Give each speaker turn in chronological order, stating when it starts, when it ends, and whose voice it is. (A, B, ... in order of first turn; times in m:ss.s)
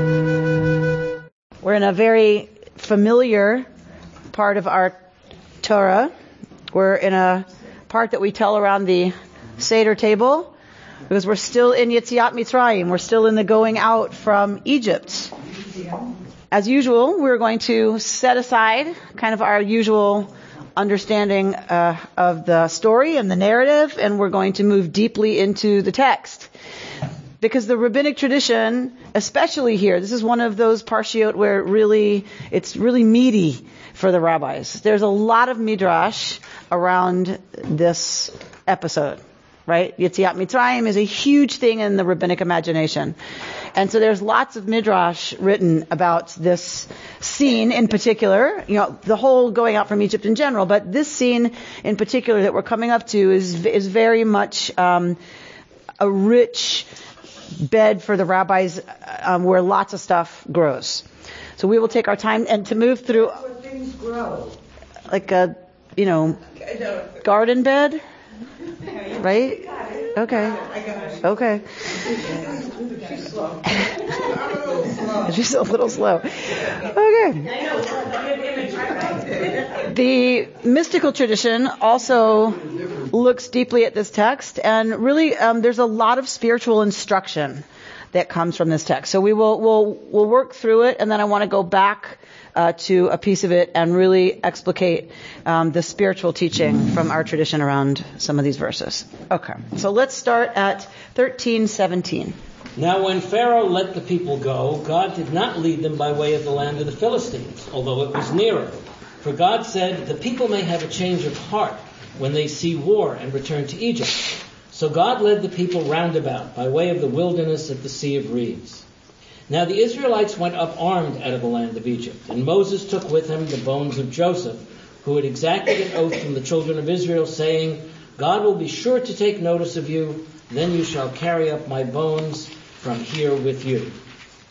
0:01.6-0:03.7 A
0:04.3-0:05.0 A
0:05.6-0:06.1 A
0:06.7-0:10.5 A
0:11.1-0:15.3 A
0:16.5-0:26.5 A
0:27.4-0:43.2 A
0:43.8-0:55.2 A
0:56.0-0:56.9 A
0:57.6-1:01.0 A
1:01.6-1:03.4 A
1:03.3-1:04.6 B
1:05.1-1:06.4 A
1:07.2-1:08.0 A
1:09.2-1:09.6 A
1:10.2-1:10.6 A
1:11.2-1:11.6 A
1:12.4-1:13.1 B
1:15.2-1:17.5 A
1:19.8-1:42.4 A
1:42.8-1:58.8 C
1:59.5-2:14.0 C